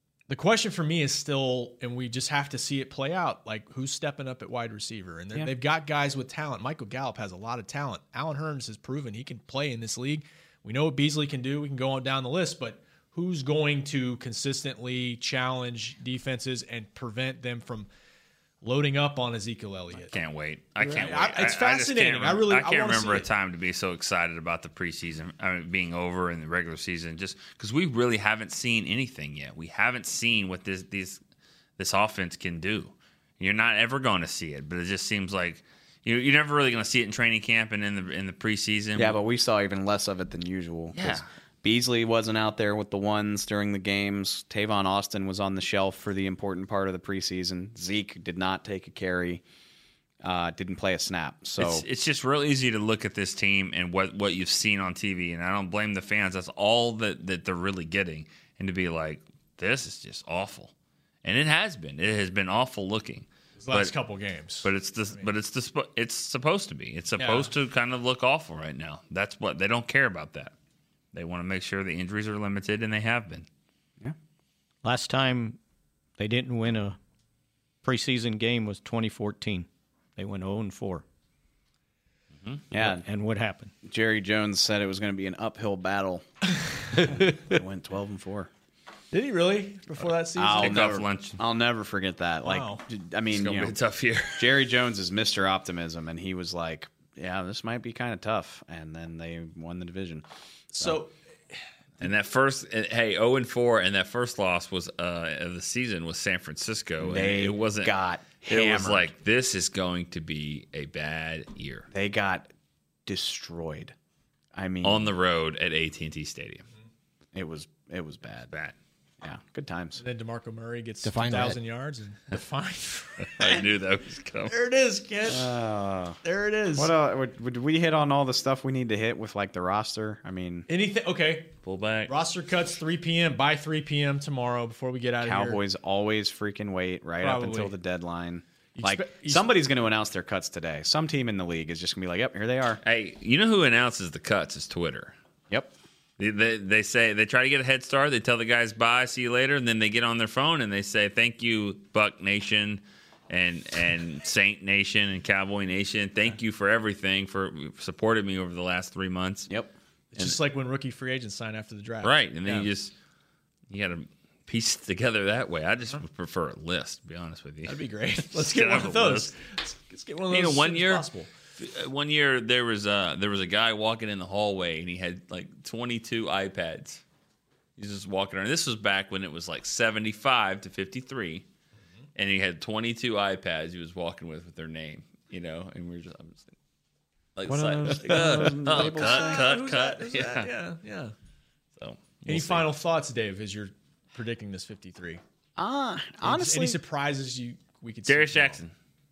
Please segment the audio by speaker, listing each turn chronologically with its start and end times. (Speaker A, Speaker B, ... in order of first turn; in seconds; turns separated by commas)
Speaker A: 0.3-17.9, Speaker A: 18.6-20.1, Speaker B: 20.1-31.2, Speaker A: 20.8-23.2, Speaker B: 31.8-39.2, Speaker C: 39.0-49.4, Speaker B: 40.9-41.2, Speaker C: 50.2-51.8, Speaker B: 51.6-60.7, Speaker B: 61.2-63.9, Speaker A: 63.6-65.2, Speaker B: 64.6-70.5, Speaker A: 67.2-67.5, Speaker B: 71.1-73.5, Speaker D: 74.8-75.6, Speaker D: 76.2-77.0, Speaker D: 77.8-81.0, Speaker C: 82.7-83.0, Speaker D: 82.8-83.7, Speaker C: 83.8-86.2, Speaker C: 86.9-88.5, Speaker A: 89.1-90.8, Speaker C: 90.3-93.7, Speaker B: 90.6-91.4, Speaker A: 92.4-92.8, Speaker B: 93.3-94.6, Speaker C: 94.3-101.0, Speaker A: 100.8-101.1, Speaker B: 102.0-111.9, Speaker C: 107.0-109.1, Speaker C: 111.9-112.5, Speaker C: 113.0-113.9, Speaker C: 114.5-115.1, Speaker B: 114.8-116.6, Speaker C: 117.3-118.5, Speaker C: 119.2-120.0, Speaker A: 120.0-123.5, Speaker C: 121.1-121.4, Speaker B: 123.4-124.5, Speaker A: 124.5-125.5, Speaker C: 125.3-126.2, Speaker A: 126.2-126.9, Speaker C: 126.8-130.7, Speaker A: 130.7-131.5, Speaker B: 131.6-132.1, Speaker A: 132.1-135.6, Speaker C: 135.2-142.8, Speaker A: 137.2-137.7, Speaker A: 138.8-139.5, Speaker B: 142.8-145.1, Speaker B: 146.2-159.5, Speaker C: 159.5-160.4, Speaker A: 160.1-162.7, Speaker B: 162.0-162.9, Speaker B: 163.7-167.8, Speaker A: 167.7-171.3, Speaker B: 168.3-169.3, Speaker B: 170.3-171.1, Speaker B: 171.6-177.0, Speaker B: 177.8-181.4, Speaker B: 182.2-186.5, Speaker B: 187.3-190.5, Speaker C: 187.5-189.4, Speaker A: 188.7-191.1, Speaker B: 191.8-192.7, Speaker A: 192.2-195.2, Speaker C: 195.6-196.8, Speaker A: 196.2-198.6, Speaker B: 198.1-198.7